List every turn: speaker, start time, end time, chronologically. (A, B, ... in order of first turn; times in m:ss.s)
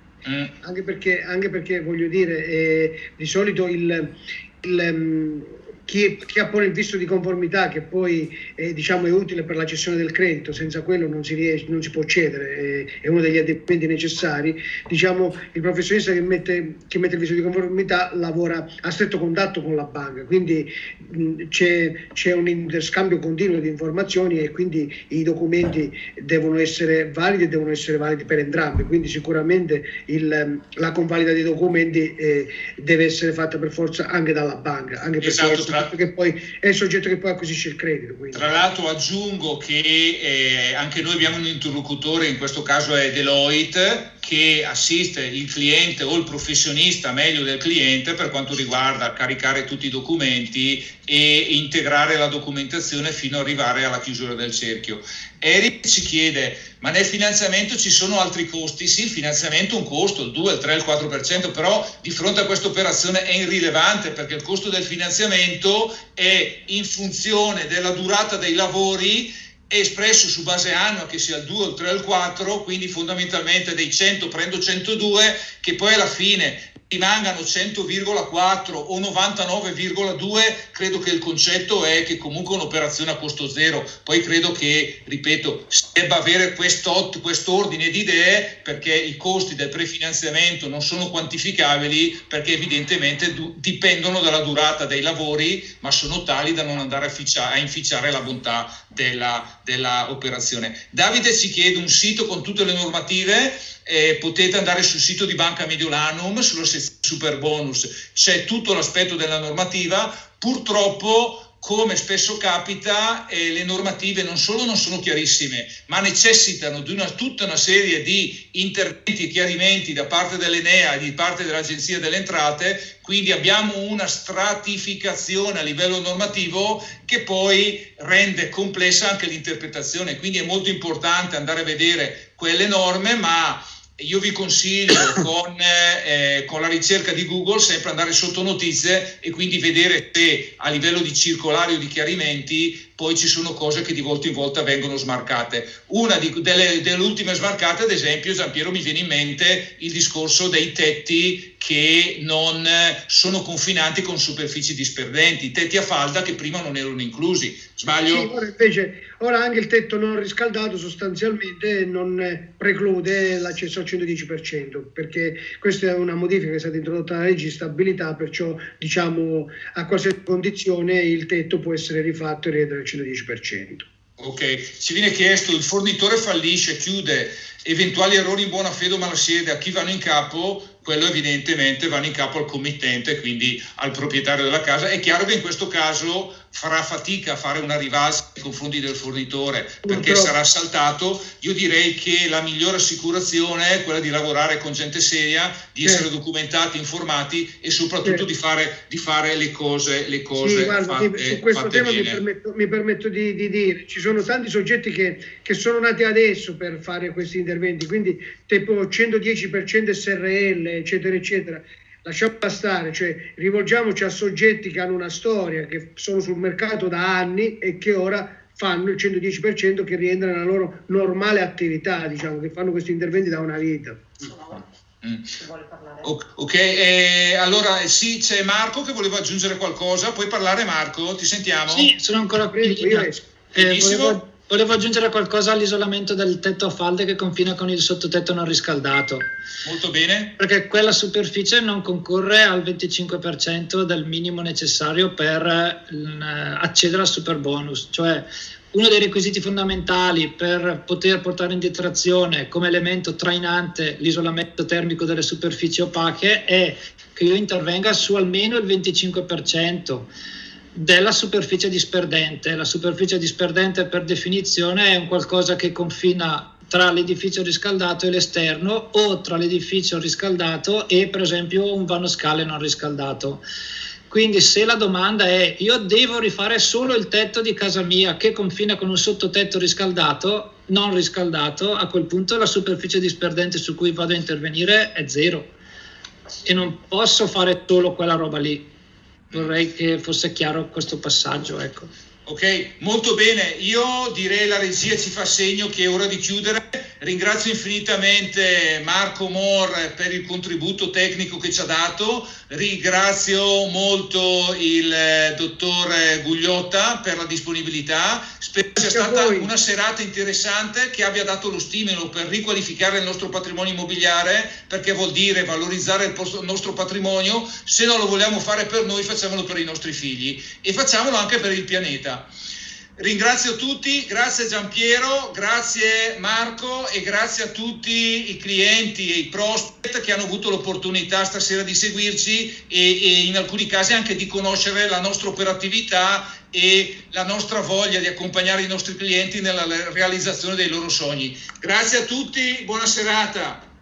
0:00.2-0:00.5 A
0:00.6-0:38.4 B
0:35.2-0:35.9 A
0:38.3-2:38.3 A
2:38.1-2:53.9 B
2:54.2-3:22.2 A
3:09.8-3:10.3 B
3:20.4-3:44.4 B
3:45.0-3:45.4 A
3:46.0-3:51.9 A
3:51.7-3:59.2 C
3:52.5-3:53.2 B
3:53.5-3:54.2 A
3:59.6-4:00.4 A
4:00.4-4:20.1 C
4:20.7-4:33.4 C
4:34.1-4:45.5 C
4:46.4-4:48.6 C
4:49.3-4:51.9 C
4:52.2-5:22.3 A
5:08.8-5:09.5 B
5:23.0-5:43.6 A